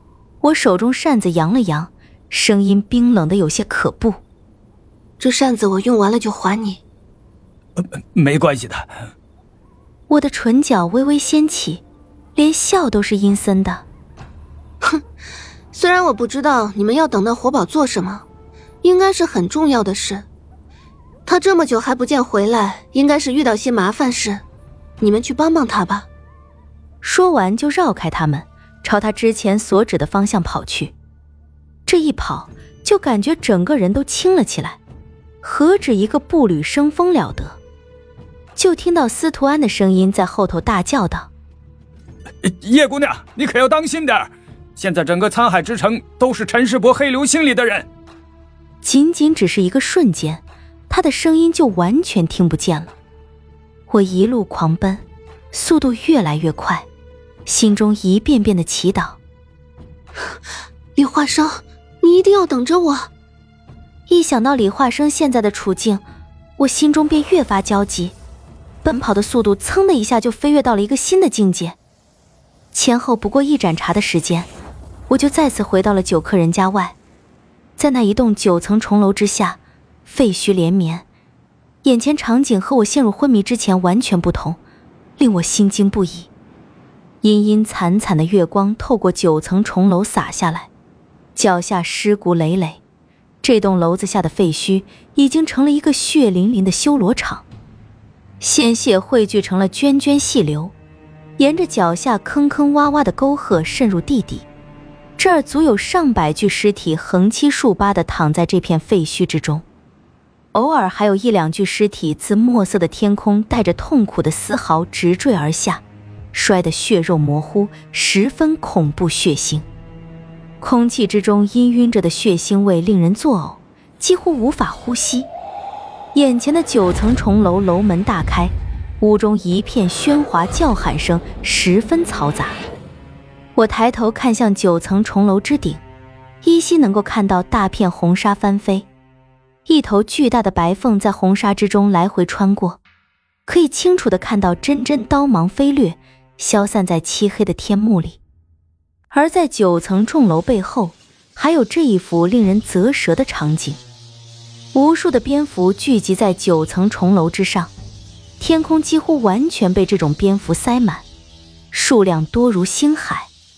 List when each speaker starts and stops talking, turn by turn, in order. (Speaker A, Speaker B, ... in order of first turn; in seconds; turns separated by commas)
Speaker A: 0.4-4.2, Speaker B: 5.2-6.8, Speaker C: 7.8-8.9, Speaker A: 10.1-11.8, Speaker A: 12.4-13.9, Speaker B: 15.7-18.2, Speaker B: 18.8-20.3, Speaker B: 21.3-24.4, Speaker B: 25.0-26.1, Speaker A: 27.0-30.9, Speaker A: 31.9-34.8, Speaker A: 35.4-37.6, Speaker A: 38.6-41.3, Speaker C: 42.4-47.9, Speaker A: 48.8-52.9, Speaker A: 53.9-56.9, Speaker A: 57.5-59.2, Speaker B: 61.0-63.1, Speaker A: 64.1-66.0, Speaker A: 66.6-68.2, Speaker A: 68.8-71.8, Speaker A: 72.7-74.5, Speaker A: 75.1-77.0, Speaker A: 77.8-81.1, Speaker A: 81.8-84.6, Speaker A: 85.2-86.3, Speaker A: 87.2-90.7, Speaker A: 91.4-92.8, Speaker A: 93.4-97.5, Speaker A: 98.4-100.7, Speaker A: 101.4-104.5, Speaker A: 105.2-109.6, Speaker A: 110.5-119.7, Speaker A: 120.6-125.3, Speaker A: 126.1-132.6, Speaker A: 133.6-135.8, Speaker A: 136.4-138.9, Speaker A: 139.7-142.8, Speaker A: 143.5-148.2, Speaker A: 149.1-153.8, Speaker A: 154.7-157.7, Speaker A: 158.4-161.1, Speaker A: 161.7-163.3